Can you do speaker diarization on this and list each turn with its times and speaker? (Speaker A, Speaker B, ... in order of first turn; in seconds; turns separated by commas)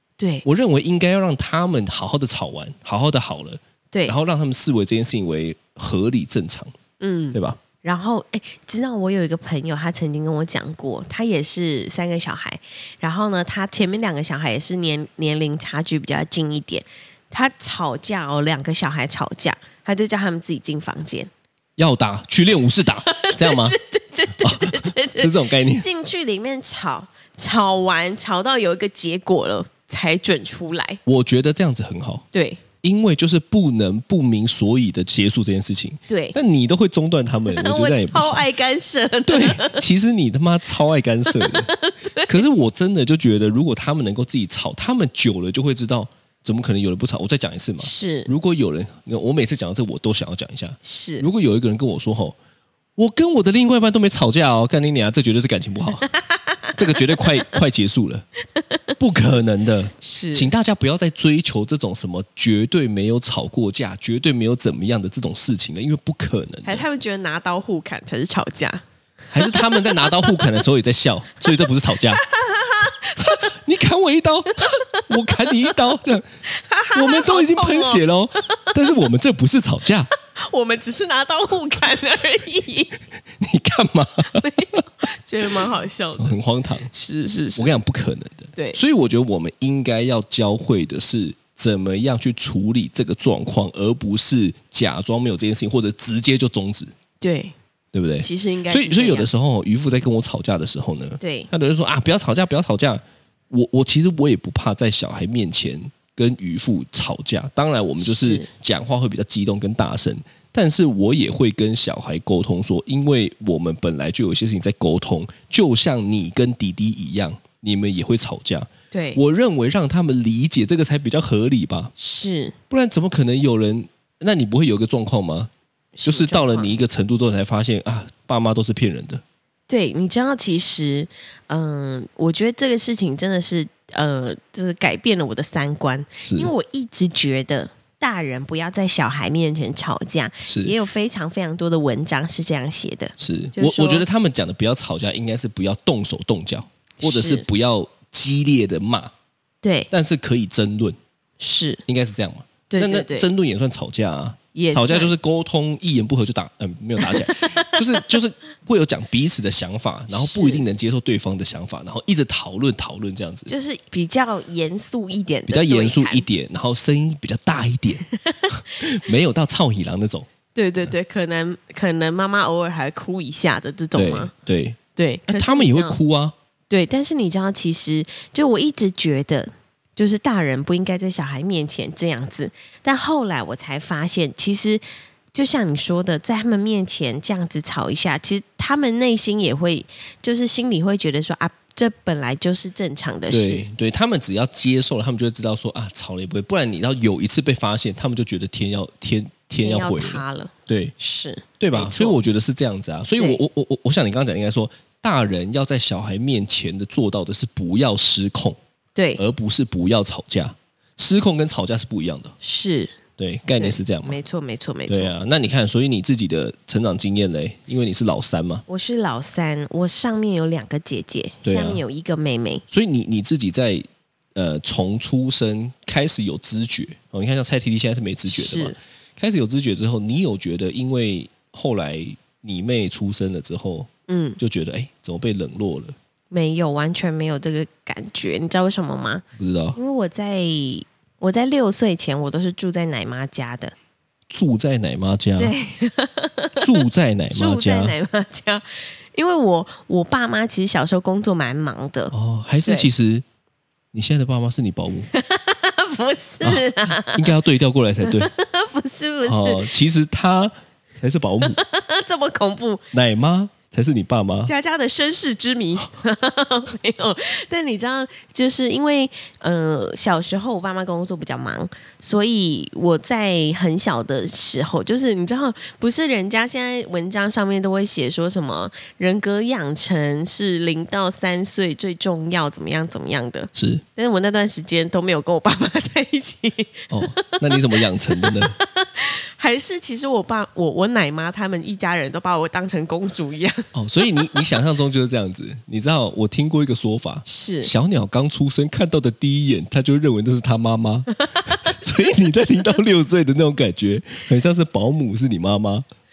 Speaker A: 0.2-0.4, Speaker B: 0.4-6.7, Speaker A: 7.0-21.3, Speaker B: 7.3-7.6, Speaker B: 21.8-23.8, Speaker A: 23.1-31.0, Speaker B: 24.4-25.9, Speaker B: 31.1-32.2, Speaker A: 32.3-32.6, Speaker B: 32.8-38.5, Speaker A: 36.1-36.4, Speaker A: 37.5-39.8, Speaker B: 39.2-41.7, Speaker A: 41.2-42.4, Speaker B: 42.3-52.4, Speaker A: 47.8-48.3, Speaker A: 50.8-51.2, Speaker B: 53.0-56.1, Speaker A: 56.1-56.7, Speaker B: 56.7-58.2, Speaker B: 59.0-66.8, Speaker A: 60.0-60.5, Speaker A: 66.6-70.4, Speaker B: 69.3-72.2, Speaker A: 72.1-73.5, Speaker B: 73.2-76.3, Speaker A: 75.0-75.5, Speaker A: 76.5-78.7, Speaker B: 76.9-80.1, Speaker A: 80.3-83.0, Speaker B: 83.4-84.8, Speaker A: 84.3-86.4, Speaker B: 86.2-86.9, Speaker A: 86.9-87.7, Speaker B: 87.5-96.9, Speaker A: 97.2-97.5, Speaker B: 97.9-121.9, Speaker A: 98.2-99.3, Speaker A: 101.2-101.5, Speaker A: 108.0-108.5, Speaker A: 118.9-119.2, Speaker A: 122.0-122.5, Speaker B: 122.7-125.5, Speaker A: 126.0-126.7, Speaker B: 126.0-129.2, Speaker A: 129.7-144.1, Speaker B: 136.2-136.5, Speaker B: 140.5-140.7, Speaker B: 143.2-149.1, Speaker A: 147.0-147.4, Speaker A: 149.6-149.9, Speaker B: 149.9-151.0, Speaker A: 151.4-151.8, Speaker B: 151.8-163.5, Speaker A: 152.7-153.3, Speaker A: 154.5-155.1, Speaker A: 157.0-158.1, Speaker A: 160.1-160.6, Speaker A: 163.5-166.2, Speaker B: 165.5-170.3, Speaker A: 168.1-168.6, Speaker A: 170.5-174.3, Speaker B: 173.9-176.3, Speaker A: 174.9-176.0, Speaker A: 176.7-193.7, Speaker B: 193.3-200.9, Speaker A: 199.6-202.2, Speaker B: 201.6-208.6, Speaker A: 208.9-209.2, Speaker B: 209.2-212.3, Speaker A: 212.4-213.0, Speaker B: 213.2-214.2, Speaker A: 213.6-215.2, Speaker B: 214.9-218.6, Speaker A: 218.7-222.6, Speaker B: 221.4-221.8, Speaker B: 222.7-235.9, Speaker A: 228.3-228.8, Speaker A: 234.1-234.4, Speaker A: 236.3-239.2, Speaker B: 239.3-239.8, Speaker A: 239.7-243.7, Speaker B: 244.3-245.5, Speaker A: 245.4-252.1, Speaker B: 246.6-248.0, Speaker B: 252.1-253.2, Speaker B: 253.9-255.1, Speaker A: 255.1-257.3, Speaker B: 256.4-258.3, Speaker A: 258.0-259.7, Speaker B: 259.2-261.6, Speaker A: 261.4-262.8, Speaker B: 262.9-264.5, Speaker A: 264.4-293.7, Speaker B: 283.5-283.8, Speaker B: 286.9-288.6, Speaker B: 293.7-305.9, Speaker A: 297.2-297.7, Speaker A: 301.2-301.7